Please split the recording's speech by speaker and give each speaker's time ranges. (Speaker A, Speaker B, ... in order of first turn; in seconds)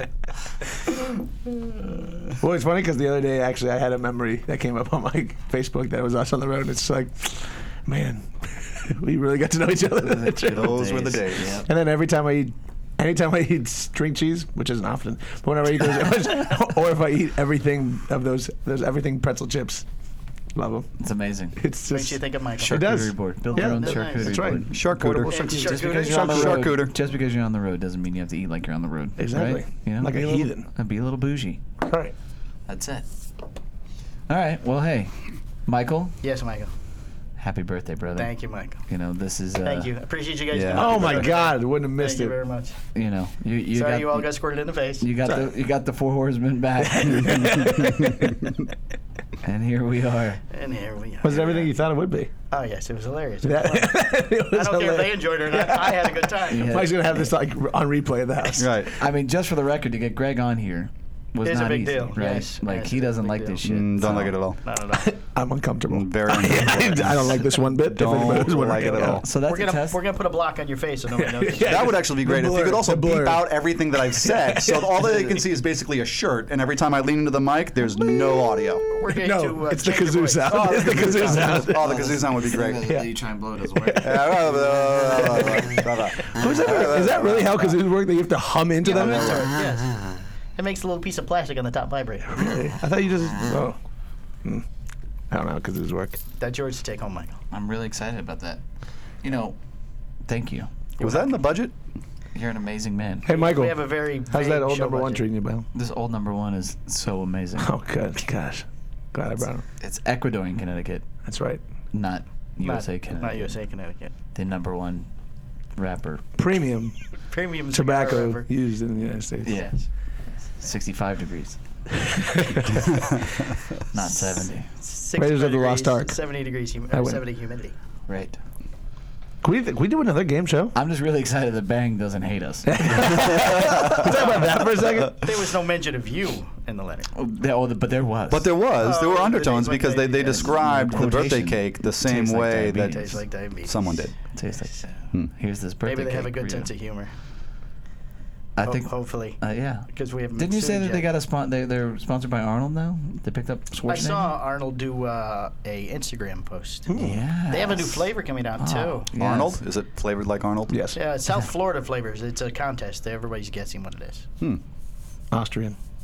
Speaker A: 2.4-10.8, 11.6-19.9, 20.6-20.9, 21.6-26.8, 29.2-30.7, 31.8-32.1, 40.8-42.4, 46.8-48.4, 51.2-52.3, 53.4-58.9, 64.9-69.2, 71.2-75.4, 79.1-82.2, 83.8-84.2, 86.2-89.5, 92.3-93.8, 95.3-96.2, 103.2-105.7, 107.6-109.6, 111.2-111.6, 116.4-117.0, 117.7-119.6, 122.1-122.8, 125.2-126.2, 126.9-127.2, 129.4-130.8, 132.7-135.2, 156.9-157.2, 160.7-161.0, 165.3-165.8
Speaker B: 10.0-11.7, 21.0-21.6, 22.6-24.7, 25.3-31.6, 32.7-33.1, 34.3-36.1, 37.4-38.3, 38.9-39.9, 43.0-44.3, 45.0-47.6, 49.4-50.4, 56.5-57.3, 59.0-64.4, 69.1-70.0, 80.9-84.8, 88.9-89.5, 97.5-98.6, 99.2-99.6, 100.3-100.7, 102.3-103.3, 105.7-107.8, 109.8-111.1, 111.9-113.6, 114.3-115.1, 115.8-116.2, 119.4-119.8, 120.5-121.6, 123.9-124.7, 128.1-128.4, 130.7-133.3, 137.2-138.5, 140.3-143.2, 144.3-146.7, 148.6-154.3, 157.0-158.1, 158.6-159.6
Speaker C: 10.5-11.6, 24.6-25.3, 26.2-26.9, 40.5-41.3, 47.6-48.6, 58.6-59.0, 63.6-64.6, 65.9-69.2, 71.6-78.9, 80.5-82.9, 84.0-87.8, 101.0-101.7, 133.1-134.0, 138.3-144.2, 159.2-160.8
Speaker D: 21.9-24.6, 25.2-26.4, 36.2-36.7, 38.2-38.8, 39.6-42.8, 43.7-45.1, 50.5-51.7, 52.5-56.9, 61.4-65.1, 69.4-72.0, 78.9-81.7, 88.8-90.0, 90.6-92.5, 96.4-97.4, 101.0-101.4, 103.3-105.3, 112.6-114.1, 117.3-118.5, 124.8-127.8, 135.1-137.1, 138.8-140.6, 142.9-144.1, 145.8-147.1, 148.6-151.1, 153.9-156.9, 157.5-159.1, 160.9-164.3